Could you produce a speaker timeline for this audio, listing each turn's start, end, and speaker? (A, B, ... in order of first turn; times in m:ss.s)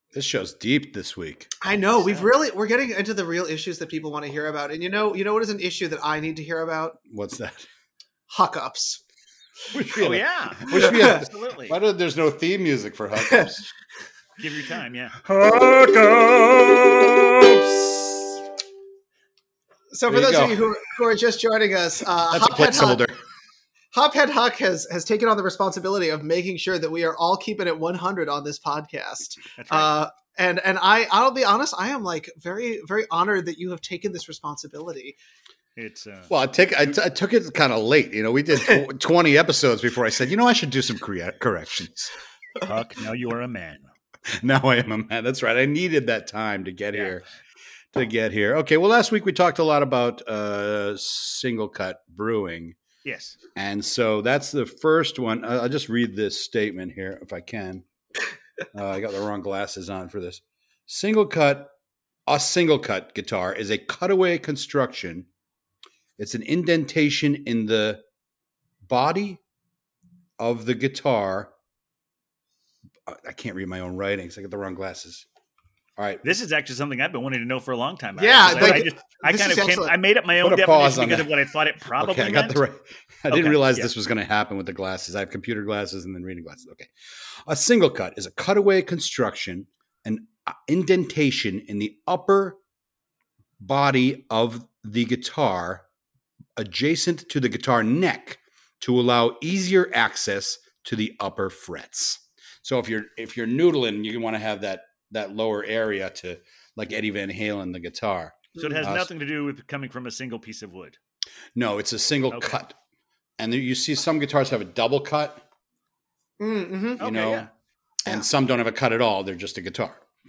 0:00.1-0:01.5 A
0:01.6-0:07.0 B
0:01.6-0:02.3 C
0:07.1-0:07.7 A
0:08.3-0:09.0 B
0:09.7-0:13.7 A
0:09.9-0:11.8 C
0:10.7-0:11.2 B
0:13.2-0:13.5 B
0:14.4-0:15.2 C
0:15.2-0:18.4 A
0:19.9-0:23.0 B
0:20.1-0:20.6 A
0:22.3-0:23.2 A
0:23.9-0:35.2 B
0:29.6-0:29.9 C
0:35.8-0:36.3 C
0:36.3-0:42.1 A
0:42.6-0:43.9 C
0:44.3-0:47.2 A
0:46.9-0:47.2 C
0:47.9-0:52.8 A
0:53.0-0:53.4 C
0:53.5-0:57.8 A
0:58.7-1:01.7 A
1:02.3-1:05.3 A
1:06.2-1:08.0 A
1:08.8-1:09.4 A
1:10.4-1:11.5 A
1:13.0-1:15.2 A
1:16.0-1:16.2 A
1:16.2-1:22.6 C
1:18.2-1:20.0 B
1:20.4-1:21.3 A
1:22.0-1:32.6 A
1:23.3-1:23.9 C
1:33.6-1:35.8 A
1:36.6-1:49.1 A
1:48.6-1:48.8 B
1:48.6-1:51.0 C
1:51.5-1:52.8 A
1:52.3-1:52.6 C
1:53.4-1:55.4 A
1:56.4-1:57.0 B
1:57.0-1:57.5 C
1:57.0-1:57.5 A
1:58.0-2:00.0 A